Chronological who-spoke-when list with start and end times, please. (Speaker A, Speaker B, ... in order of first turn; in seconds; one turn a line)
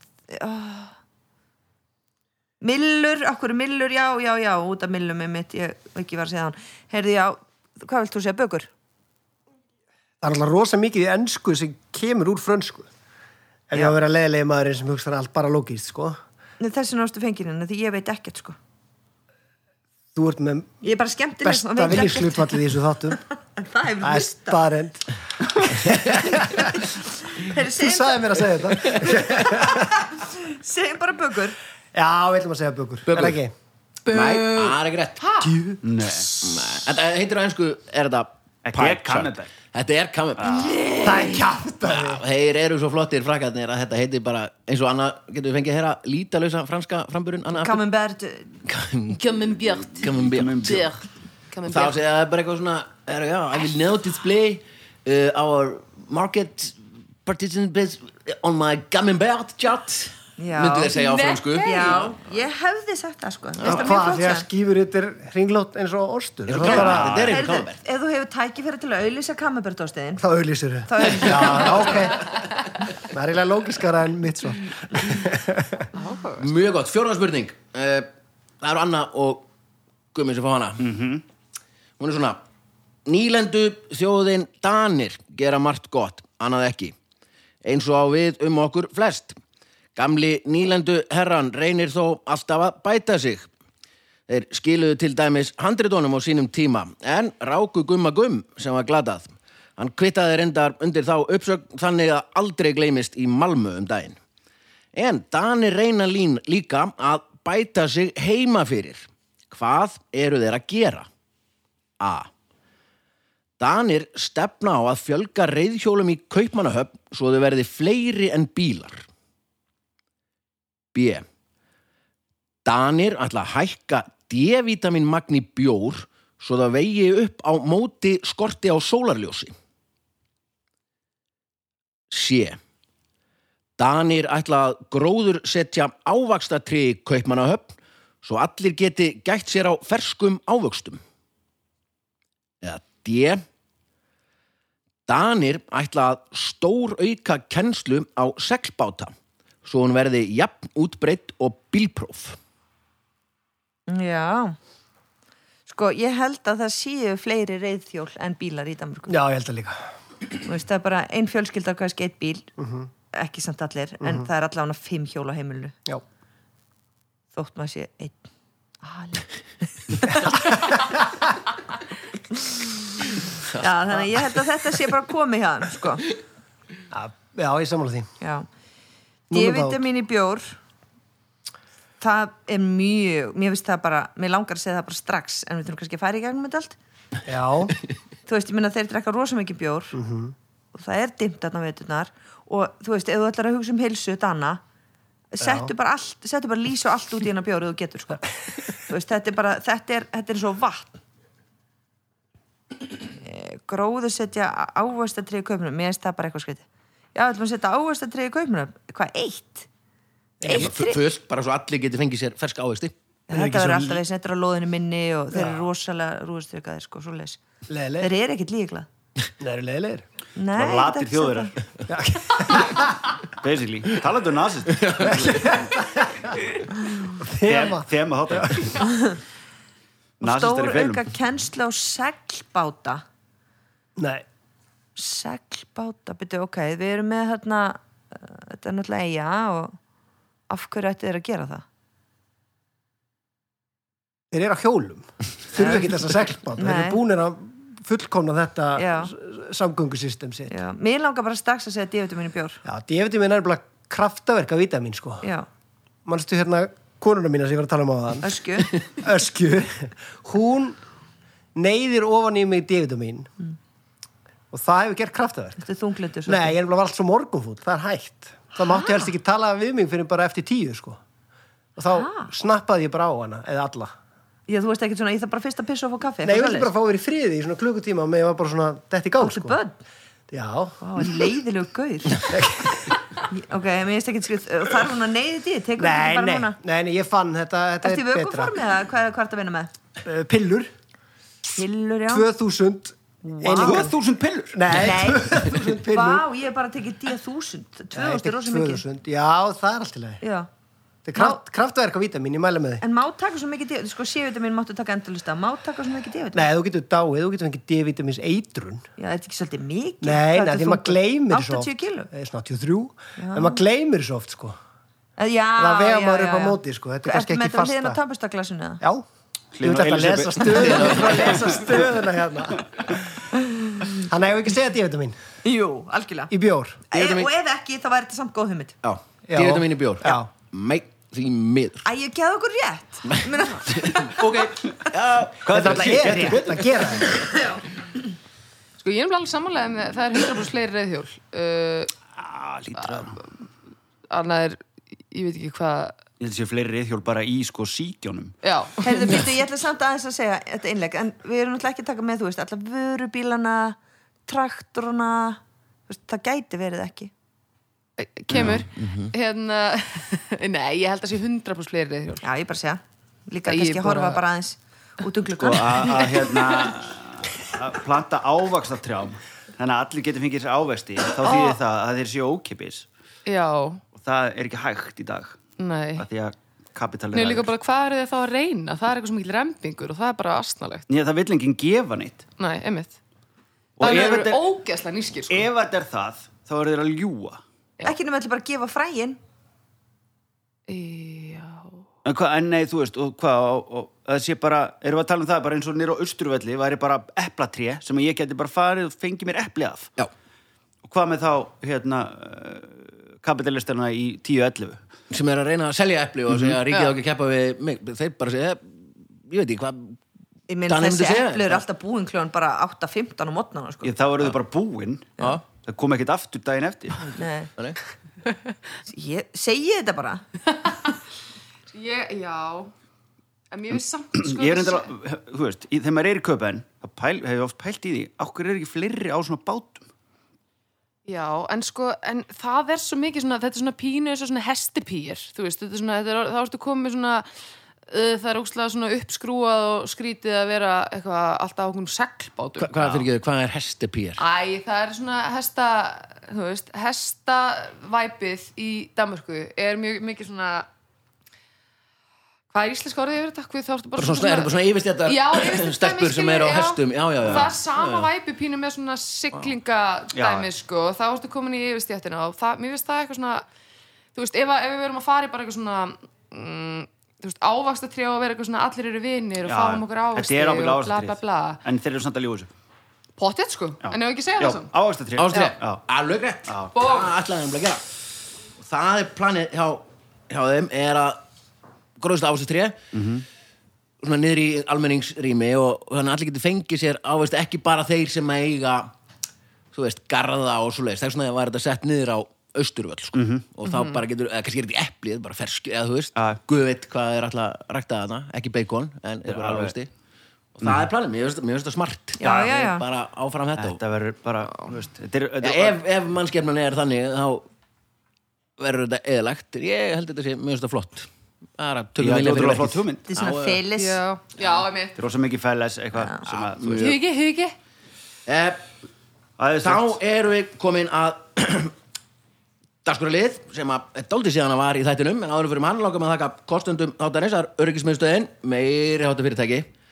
Speaker A: 0.3-0.9
Speaker A: 2.6-8.7
Speaker B: 10.2-12.9
Speaker B: 13.7-16.2
Speaker A: 16.6-18.6
Speaker B: 20.1-20.8
Speaker A: 20.8-22.6
Speaker B: 21.4-23.2
Speaker A: 23.6-24.6
Speaker B: 24.0-26.8
Speaker A: 26.3-31.6
Speaker B: 27.7-30.0
Speaker B: 31.9-33.5
Speaker C: 33.1-33.4
Speaker D: 34.0-35.6
Speaker C: 34.1-35.2
Speaker B: 35.4-35.8
Speaker E: 35.8-36.4
Speaker D: 36.2-36.5
Speaker C: 36.4-41.3
Speaker E: 38.6-39.5
Speaker E: 40.4-40.7
Speaker D: 40.8-41.2
Speaker B: 41.0-42.2
Speaker C: 41.8-47.8
Speaker A: 47.5-48.6
Speaker C: 48.6-49.2
Speaker D: 49.1-52.0
Speaker C: 50.0-50.9
Speaker E: 50.1-50.9
Speaker C: 51.6-62.1
Speaker A: 60.4-60.9
Speaker D: 60.9-62.1
Speaker A: 61.6-64.5
Speaker B: 63.6-67.3
Speaker C: 66.5-67.8
Speaker A: 66.7-70.2
Speaker E: 66.8-67.3
Speaker B: 70.2-72.3
Speaker A: 70.8-72.1
Speaker C: 71.2-71.6
Speaker B: 73.0-75.9
Speaker D: 75.9-76.5
Speaker C: 76.4-78.1
Speaker C: 78.6-79.5
Speaker C: 80.1-80.8
Speaker E: 80.8-81.2
Speaker C: 82.0-82.4
Speaker C: 83.0-86.9
Speaker C: 87.6-89.3
Speaker C: 90.0-93.5
Speaker C: 94.3-104.2
Speaker C: 104.9-111.1
Speaker C: 112.0-112.3
Speaker C: 113.6-119.0
Speaker C: 120.9-121.2
Speaker C: 122.6-129.5
Speaker C: 132.1-132.6
Speaker C: 133.8-141.0
Speaker C: 142.6-143.4
Speaker C: 145.1-149.1
Speaker C: 149.6-152.4
Speaker A: 153.9-154.6
Speaker A: 155.7-159.2
Speaker B: 159.1-159.8
Speaker A: 160.4-162.5
Speaker B: 162.6-162.9
Speaker A: 163.1-165.8
Speaker B: 164.0-164.3
Speaker A: 167.3-168.2
Speaker A: 168.8-171.0
Speaker A: 172.3-176.1
Speaker C: 173.5-174.4
Speaker B: 176.9-178.1
Speaker A: 178.2-178.5
Speaker B: 179.3-179.8
Speaker A: 179.3-180.6
Speaker A: 182.0-186.8
Speaker B: 187.2-187.7
Speaker A: 188.2-189.9
Speaker B: 189.9-190.3
Speaker A: 190.7-194.6
Speaker A: 195.3-200.9
Speaker B: 195.4-195.7
Speaker A: 203.1-209.7
Speaker B: 210.4-210.7
Speaker A: 210.4-211.0
Speaker C: 210.5-212.9
Speaker A: 213.3-217.4
Speaker B: 213.3-214.0
Speaker B: 215.3-215.7
Speaker B: 217.7-218.1
Speaker A: 218.0-218.9
Speaker B: 219.4-220.0
Speaker A: 220.3-221.5
Speaker E: 220.5-221.6
Speaker B: 221.9-222.9
Speaker E: 223.3-225.7
Speaker C: 224.8-225.3
Speaker B: 225.0-226.3
Speaker B: 227.2-228.8
Speaker E: 227.4-228.9
Speaker A: 228.8-229.2
Speaker E: 230.2-231.0
Speaker A: 230.2-233.0
Speaker B: 234.0-234.2
Speaker A: 234.9-239.8
Speaker A: 240.5-241.6
Speaker B: 244.3-250.6
Speaker A: 245.6-246.0
Speaker A: 246.6-247.0
Speaker A: 248.8-249.1
Speaker A: 250.5-252.6
Speaker B: 252.6-255.3
Speaker B: 256.1-258.3
Speaker A: 258.2-258.8
Speaker B: 258.9-260.8
Speaker B: 261.5-263.3
Speaker B: 264.5-265.6
Speaker A: 265.6-266.5
Speaker B: 266.2-271.0
Speaker A: 268.6-269.1
Speaker B: 271.8-273.9
Speaker A: 271.9-272.3
Speaker A: 274.5-276.7
Speaker B: 276.2-279.6
Speaker A: 279.2-279.8
Speaker B: 280.3-281.0
Speaker A: 280.8-282.3
Speaker B: 282.3-282.9
Speaker A: 283.3-286.6
Speaker B: 285.8-288.5
Speaker A: 287.8-289.7
Speaker B: 290.0-290.7
Speaker A: 291.5-292.2
Speaker B: 292.1-293.9
Speaker A: 293.4-293.9
Speaker E: 293.5-294.7
Speaker B: 294.5-296.2
Speaker A: 294.7-298.8
Speaker B: 297.9-300.2
Speaker A: 300.2-300.5
Speaker B: 301.0-302.8
Speaker A: 302.8-306.5
Speaker B: 306.3-308.9
Speaker A: 309.0-312.1
Speaker B: 310.0-314.6
Speaker A: 313.2-313.6
Speaker A: 315.2-318.8
Speaker B: 315.6-318.0
Speaker E: 319.5-321.8
Speaker B: 319.6-322.9
Speaker C: 320.5-321.2
Speaker B: 324.0-325.2
Speaker A: 325.4-326.3
Speaker B: 326.3-326.8
Speaker A: 326.9-328.8
Speaker C: 326.9-327.3
Speaker C: 328.8-331.9
Speaker B: 329.3-330.3
Speaker A: 331.8-334.4
Speaker C: 333.0-336.5
Speaker E: 335.4-336.9
Speaker B: 335.5-337.2
Speaker A: 337.1-337.6
Speaker D: 338.8-341.9
Speaker E: 342.2-343.2
Speaker D: 342.8-343.2
Speaker D: 344.1-346.0
Speaker E: 346.2-348.4
Speaker D: 348.4-349.2
Speaker A: 348.8-357.1
Speaker D: 358.0-362.3
Speaker E: 358.3-358.6
Speaker C: 358.3-359.1
Speaker A: 362.2-366.1
Speaker D: 363.4-364.2
Speaker E: 365.4-372.9
Speaker D: 371.2-371.6
Speaker D: 373.2-373.8
Speaker E: 373.9-375.4
Speaker D: 375.6-376.1
Speaker E: 376.0-377.5
Speaker D: 377.1-380.8
Speaker E: 380.9-382.2
Speaker D: 382.4-382.9
Speaker E: 383.8-384.4
Speaker D: 383.8-385.5
Speaker E: 385.3-387.4
Speaker A: 387.8-389.2
Speaker D: 390.7-391.8
Speaker E: 392.0-399.9
Speaker E: 400.8-404.8
Speaker C: 405.1-410.0
Speaker E: 406.3-406.6
Speaker D: 406.7-406.9
Speaker A: 410.5-413.9
Speaker C: 410.7-411.6
Speaker E: 413.8-417.1
Speaker A: 417.1-417.5
Speaker A: 418.9-420.2
Speaker D: 420.5-420.9
Speaker D: 421.7-422.7
Speaker D: 423.5-424.9
Speaker E: 424.1-429.9
Speaker D: 431.1-437.3
Speaker D: 437.9-443.1
Speaker C: 442.6-444.2
Speaker D: 444.2-450.7
Speaker D: 452.5-463.4
Speaker C: 453.9-458.1
Speaker E: 460.1-460.5
Speaker D: 464.1-471.6
Speaker E: 469.4-472.5
Speaker D: 473.2-474.7
Speaker E: 473.8-475.8
Speaker C: 475.1-477.8
Speaker E: 476.5-476.7
Speaker D: 476.7-477.1
Speaker C: 478.6-481.2
Speaker C: 482.0-482.8
Speaker E: 482.9-483.2
Speaker C: 484.0-488.9
Speaker C: 489.7-499.9
Speaker E: 493.1-493.4
Speaker D: 493.6-494.0
Speaker E: 499.2-499.7
Speaker C: 500.6-503.8
Speaker E: 500.6-500.9
Speaker A: 502.2-502.8
Speaker E: 502.2-502.6
Speaker E: 503.6-505.8
Speaker C: 505.4-507.5
Speaker C: 508.6-513.6
Speaker E: 512.0-513.0
Speaker A: 513.1-514.0
Speaker D: 513.7-515.0
Speaker E: 515.0-516.9
Speaker C: 516.2-517.0
Speaker D: 516.7-517.5
Speaker C: 518.3-518.6
Speaker E: 519.4-520.0
Speaker C: 519.6-521.7
Speaker C: 522.8-529.7